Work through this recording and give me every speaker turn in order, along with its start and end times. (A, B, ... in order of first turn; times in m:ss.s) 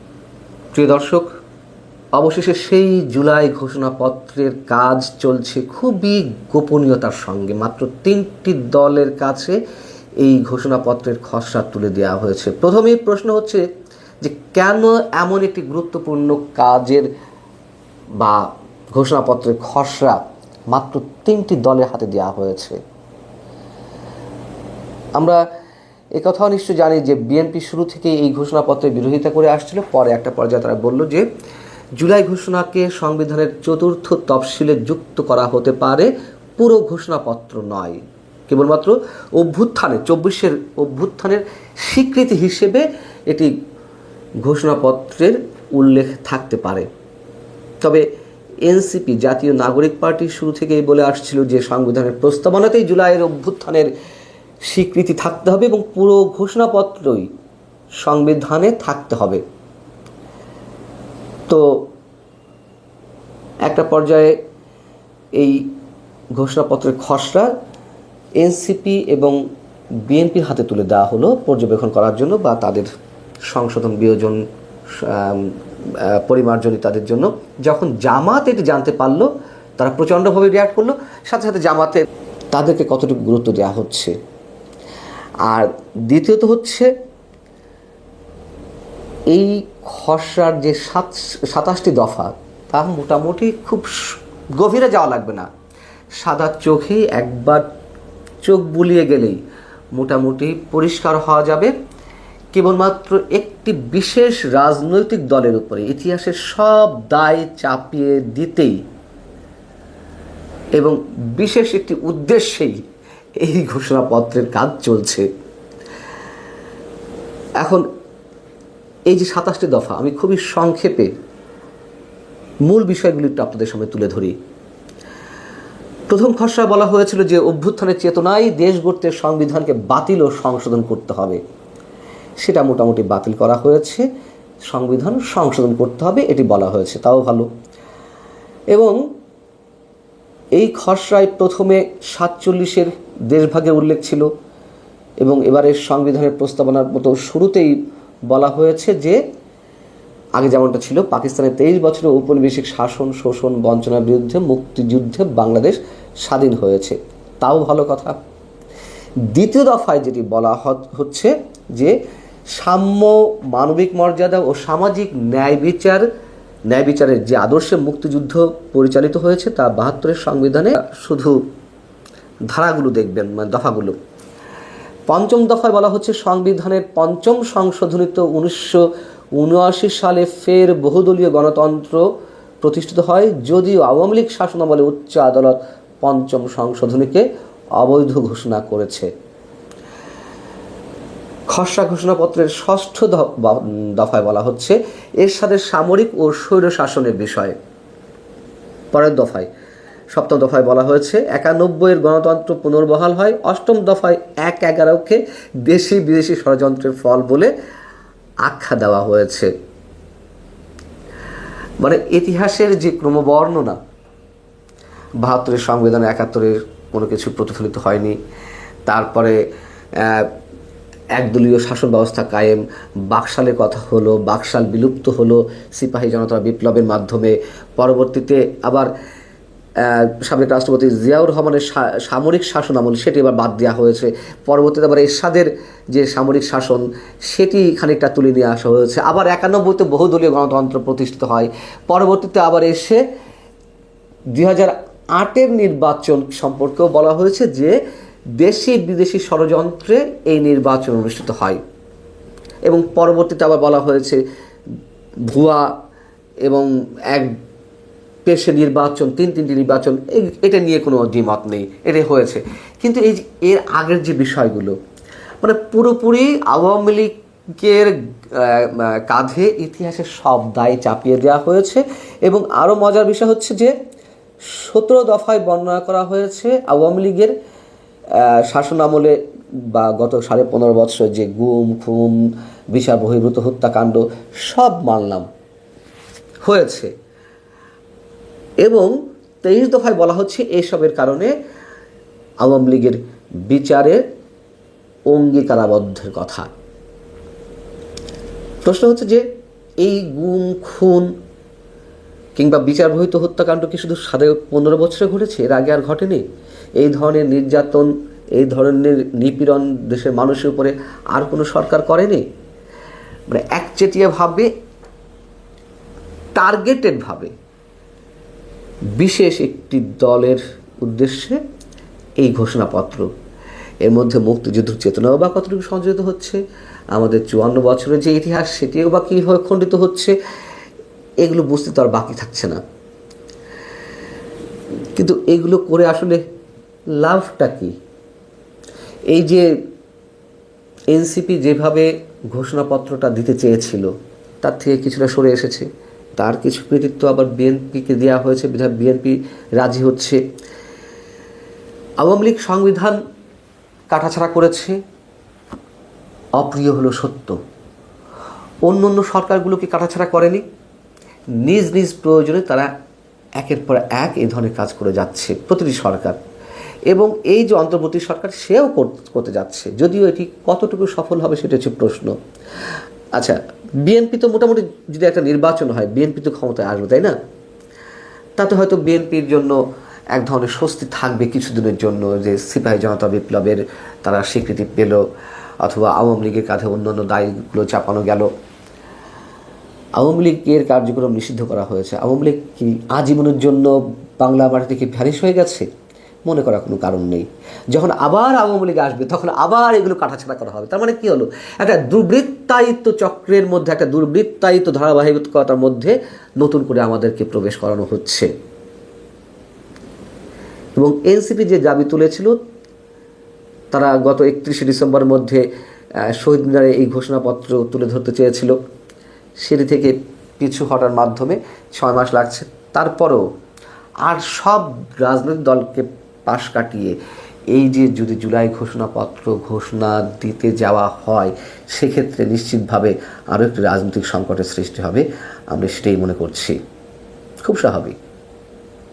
0:00.7-0:01.3 A
0:02.1-0:09.6 A
0:10.2-0:13.6 A
0:14.2-0:17.1 A
0:18.2-0:22.8 A
0:25.2-0:25.4 A
0:26.1-0:31.3 A
0:32.0-0:43.5 A
0:44.4-0:46.9 A
0:47.8-0:48.0 A
0:48.6-0:53.9 A
0:54.6-0:57.3 A
0:58.0-0:59.4 A
1:01.5-1:01.8 A
1:03.6-1:04.4 A
1:05.4-1:05.6 A
1:06.4-1:07.5 A
1:08.4-1:09.4 A
1:10.1-1:12.9 A
1:13.5-1:14.4 A
1:14.9-1:24.2 A
1:25.5-1:26.9 A
1:29.3-1:34.0 A
1:34.6-1:35.5 A
1:36.2-1:37.6 A
1:38.4-1:39.4 A
1:40.0-1:41.7 A
1:42.5-1:48.8 A
1:50.8-1:52.8 A
1:53.4-1:55.3 A
1:57.6-1:57.8 A
1:59.1-2:01.1 A
2:02.6-2:04.4 A
2:06.1-2:11.4 A
2:12.4-2:14.0 A
2:14.7-2:17.5 A
2:18.7-2:19.0 A
2:20.6-2:24.3 A
2:25.2-2:27.8 A
2:28.3-2:29.2 A
2:30.4-2:38.2 A
2:39.3-2:42.0 A
2:42.5-2:46.1 A
2:46.7-2:51.4 A
2:52.5-2:54.0 A
2:55.1-2:58.8 A
2:59.4-3:02.0 A
3:02.6-3:09.1 A
3:11.5-3:17.6 A
3:18.9-3:19.5 A
3:20.1-3:27.5 A
3:28.4-3:29.5 A
3:31.8-3:33.8 A
3:35.2-3:38.2 A
3:38.9-3:39.4 A
3:40.0-3:40.3 A
3:41.2-3:48.9 A
3:49.8-4:03.0 A
4:04.3-4:07.8 A
4:08.4-4:11.6 A
4:12.7-4:14.2 A
4:15.3-4:15.7 A
4:16.4-4:17.4 A
4:18.2-4:24.8 A
4:25.4-4:33.8 A
4:34.5-4:37.4 A
4:38.1-4:39.1 A
4:39.7-4:42.2 A
4:42.7-4:45.3 A
4:46.4-4:46.9 A
4:48.6-4:48.9 A
4:49.4-4:51.3 A
4:52.4-4:54.0 A
4:55.1-4:56.5 A
4:58.6-4:59.2 A
4:59.8-5:01.1 A
5:02.4-5:06.2 A
5:06.8-5:12.2 A
5:13.3-5:14.5 A
5:16.4-5:17.3 A
5:19.0-5:21.4 A
5:22.2-5:23.1 A
5:23.8-5:26.4 A
5:26.9-5:30.1 A
5:31.2-5:32.6 A
5:34.9-5:36.2 A
5:37.0-5:37.8 A
5:39.1-5:39.5 A
5:40.9-5:50.2 A
5:52.0-5:53.0 A
5:53.9-5:54.8 A
5:56.4-5:57.4 A
5:58.6-6:00.4 A
6:01.4-6:02.7 A
6:03.4-6:06.2 A
6:06.9-6:12.2 A
6:13.2-6:17.2 A
6:18.4-6:19.6 A
6:20.1-6:25.0 A
6:25.6-6:28.3 A
6:30.0-6:35.7 A
6:36.2-6:48.3 A
6:50.8-6:52.4 A
6:53.7-6:55.4 A
6:56.1-6:58.6 A
6:59.4-7:03.2 A
7:04.0-7:07.0 A
7:07.5-7:16.6 A
7:17.4-7:18.0 A